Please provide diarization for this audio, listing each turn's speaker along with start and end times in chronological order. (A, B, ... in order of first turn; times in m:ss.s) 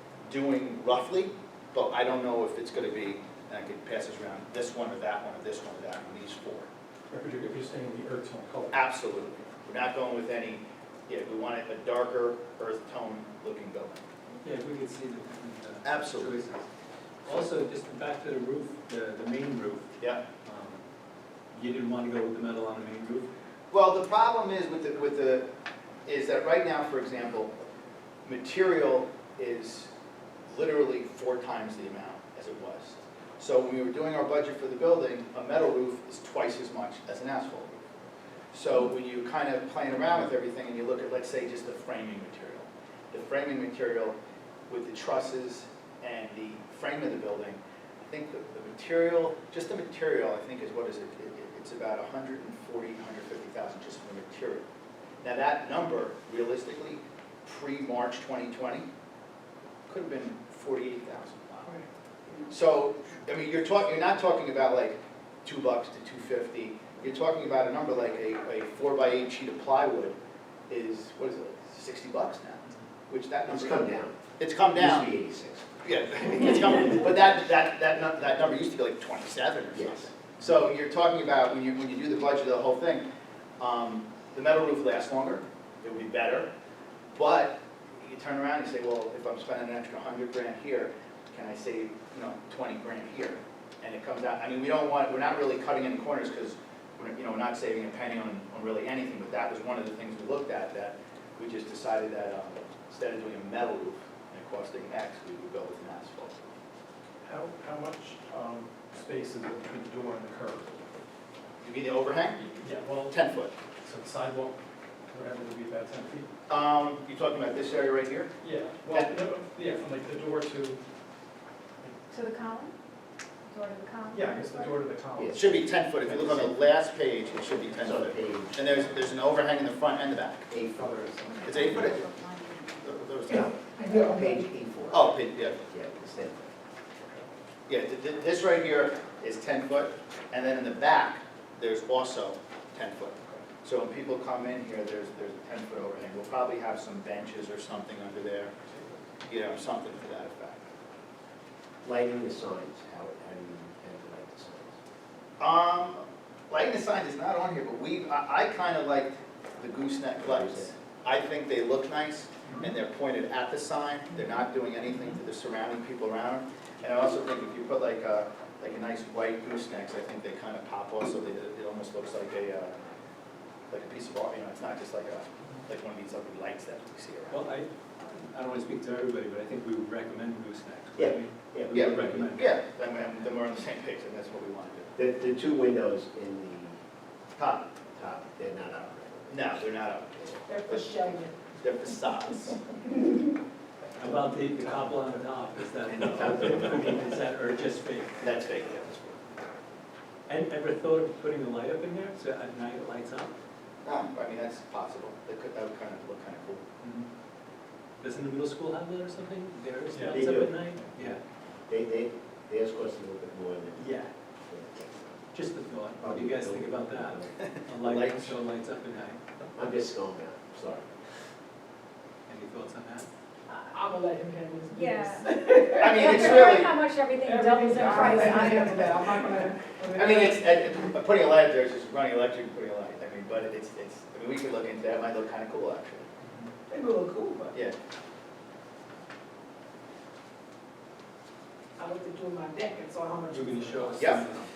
0:00.3-0:06.7 A
0:07.1-0:08.8 B
0:08.7-0:14.0 A
0:14.4-0:16.6 C
0:15.8-0:16.4 A
0:17.2-0:19.9 C
0:20.4-0:20.8 C
0:21.5-0:23.3 C
0:23.7-0:25.5 A
0:26.1-0:27.5 A
0:28.2-0:29.9 A
0:30.5-0:37.8 A
0:38.5-0:44.2 A
0:44.7-0:54.7 A
0:55.2-0:58.9 A
0:59.9-1:01.8 A
1:02.5-1:10.2 A
1:10.7-1:13.9 A
1:13.5-1:14.2 D
1:14.4-1:15.1 A
1:14.7-1:15.7 D
1:15.8-1:23.0 A
1:19.7-1:20.1 D
1:23.6-1:26.5 A
1:27.2-1:46.4 A
1:47.2-1:50.8 B
1:51.6-1:52.4 A
1:52.4-1:53.2 B
1:53.1-1:53.5 A
1:53.8-1:54.6 B
1:55.1-1:56.3 B
1:56.5-1:58.3 A
1:58.4-2:00.8 B
2:02.1-2:02.7 E
2:03.4-2:04.7 E
2:04.1-2:05.4 B
2:05.2-2:06.5 D
2:05.3-2:10.6 A
2:07.8-2:08.8 D
2:10.5-2:12.0 D
2:10.6-2:11.5 B
2:11.3-2:12.8 E
2:11.4-2:12.1 A
2:12.8-2:13.6 A
2:13.3-2:14.5 F
2:13.3-2:16.5 D
2:14.9-2:15.6 A
2:17.7-2:28.5 A
2:29.3-2:30.6 A
2:31.8-2:34.8 D
2:35.4-2:52.8 A
2:40.2-2:40.7 D
2:53.7-2:57.4 A
2:57.3-3:02.4 C
3:01.0-3:02.3 D
3:01.7-3:04.9 A
3:05.0-3:06.8 D
3:07.4-3:07.7 A
3:07.9-3:09.6 D
3:09.3-3:12.6 A
3:10.4-3:11.4 F
3:14.0-3:18.2 C
3:16.0-3:16.8 A
3:16.6-3:16.9 D
3:18.2-3:19.1 A
3:20.3-3:23.3 C
3:23.8-3:26.6 A
3:28.0-3:31.2 C
3:29.9-3:31.1 B
3:30.1-3:30.7 D
3:31.7-3:33.9 D
3:33.8-3:34.1 C
3:34.5-3:35.3 D
3:35.3-3:39.2 C
3:36.0-3:37.3 D
3:37.4-3:38.4 A
3:39.6-3:40.9 D
3:42.3-3:43.1 C
3:43.5-3:46.6 F
3:44.7-3:45.3 E
3:45.7-3:46.8 A
3:46.1-3:48.8 E
3:47.2-3:50.5 F
3:49.9-3:56.1 A
3:56.7-3:57.6 F
4:01.8-4:04.2 F
4:03.3-4:04.4 C